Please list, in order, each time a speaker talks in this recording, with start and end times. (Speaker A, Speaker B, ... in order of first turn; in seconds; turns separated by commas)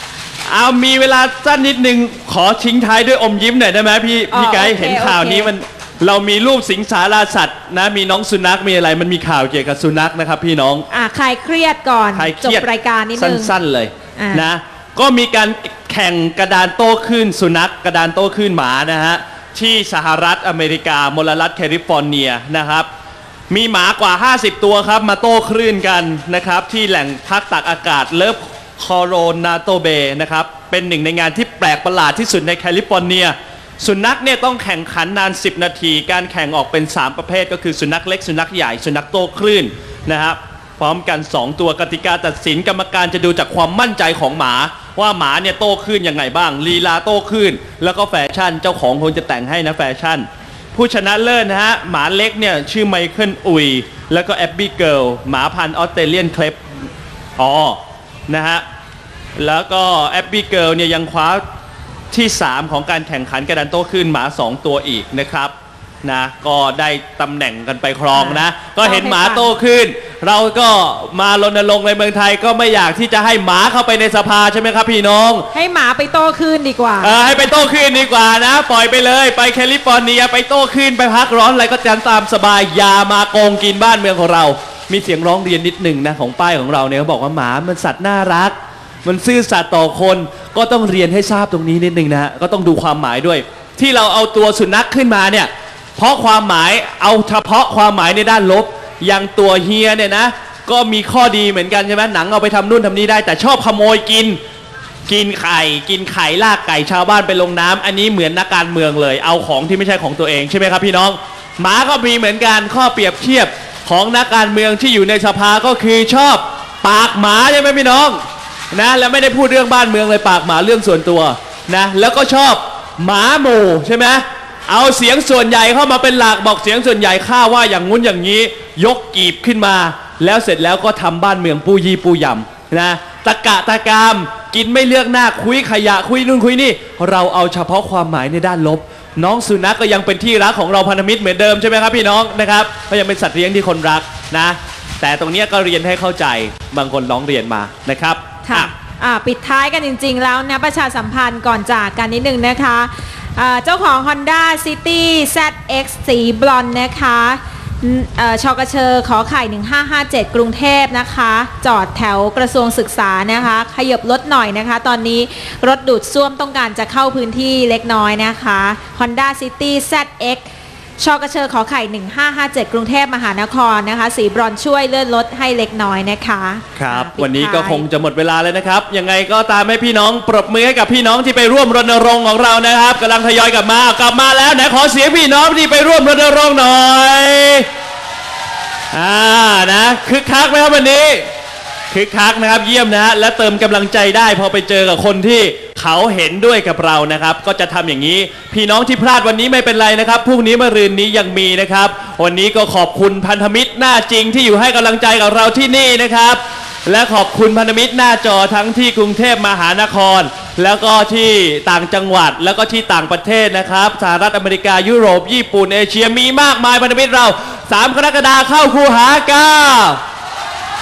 Speaker A: 0.5-10.8, Speaker B: 4.3-5.5, Speaker B: 10.9-13.5, Speaker A: 12.1-22.9, Speaker B: 14.2-14.4, Speaker A: 23.5-56.6, Speaker A: 57.4-58.6, Speaker A: 59.4-61.4, Speaker A: 62.1-65.5, Speaker A: 66.0-75.5, Speaker B: 68.1-69.5, Speaker B: 75.5-77.2, Speaker A: 77.0-104.4, Speaker A: 105.1-118.2, Speaker A: 118.7-148.7, Speaker B: 148.5-170.4, Speaker B: 171.0-177.8, Speaker A: 176.8-187.7, Speaker A: 188.9-191.2, Speaker A: 191.9-220.0